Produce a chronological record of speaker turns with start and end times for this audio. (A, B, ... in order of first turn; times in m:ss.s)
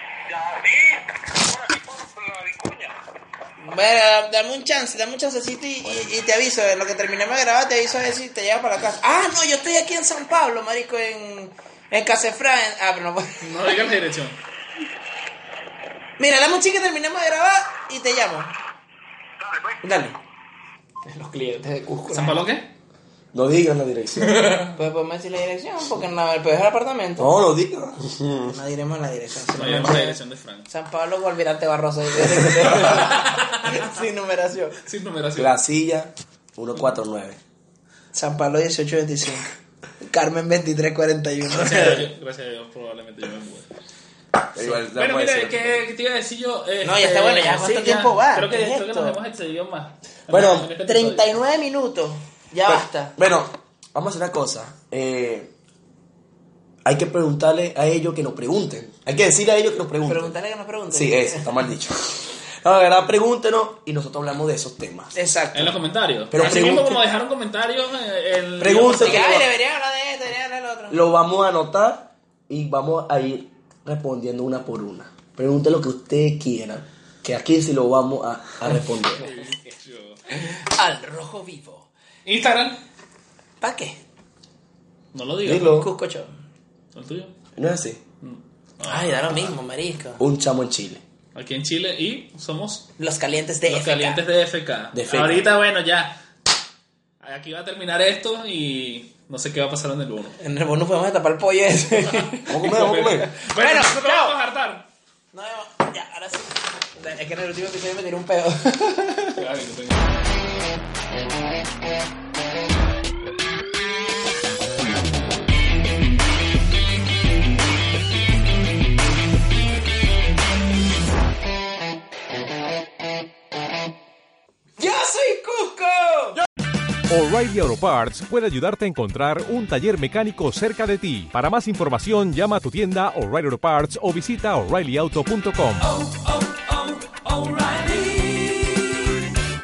0:00.3-0:03.0 A
0:03.6-0:13.5 B
0:05.8-0:06.1 C
0:13.4-0:14.4 D
0:16.2-0:18.5 B
0:19.4-0:19.8 A
0:19.8-0:20.2 B
0:21.1-0:22.4 B
0:22.1-0:22.7 D
0:23.3-0:24.5 C
0:24.2-0:24.8 D
0:24.8-0:27.3 B
0:27.2-0:28.6 C
0:28.5-0:34.8 B
0:29.5-0:30.7 D
0:32.4-0:32.7 C
0:32.7-0:33.9 D
0:34.8-0:35.5 D
0:35.4-0:37.4 C
0:38.1-0:39.5 B
0:40.0-0:42.1 B
0:41.5-0:43.7 D
0:44.5-0:45.8 C
0:44.9-0:51.3 D
0:46.8-0:49.2 B
0:50.3-0:50.7 C
0:50.8-0:53.2 B
0:52.7-0:55.5 C
0:56.8-1:00.4 C
1:00.1-1:01.5 B
1:00.9-1:05.2 C
1:05.2-1:05.8 B
1:05.6-1:09.4 D
1:06.3-1:07.0 C
1:08.6-1:09.5 C
1:09.0-1:11.0 B
1:10.9-1:19.3 C
1:19.2-1:20.2 D
1:20.4-1:21.9 B
1:22.3-1:22.8 D
1:23.6-1:24.0 B
1:25.1-1:25.8 D
1:25.4-1:25.9 C
1:25.7-1:26.3 B
1:26.9-1:27.4 D
1:27.6-1:28.0 C
1:28.2-1:29.5 D
1:28.8-1:30.2 B
1:30.2-1:31.0 C
1:31.4-1:32.9 D
1:33.0-1:34.2 B
1:33.7-1:36.2 D
1:34.9-1:35.5 C
1:37.2-1:40.4 D
1:40.4-1:44.4 B
1:42.5-1:43.3 C
1:42.6-1:44.9 D
1:45.3-1:49.4 B
1:49.4-1:50.1 D
2:04.8-2:06.4 B
2:07.1-2:18.9 E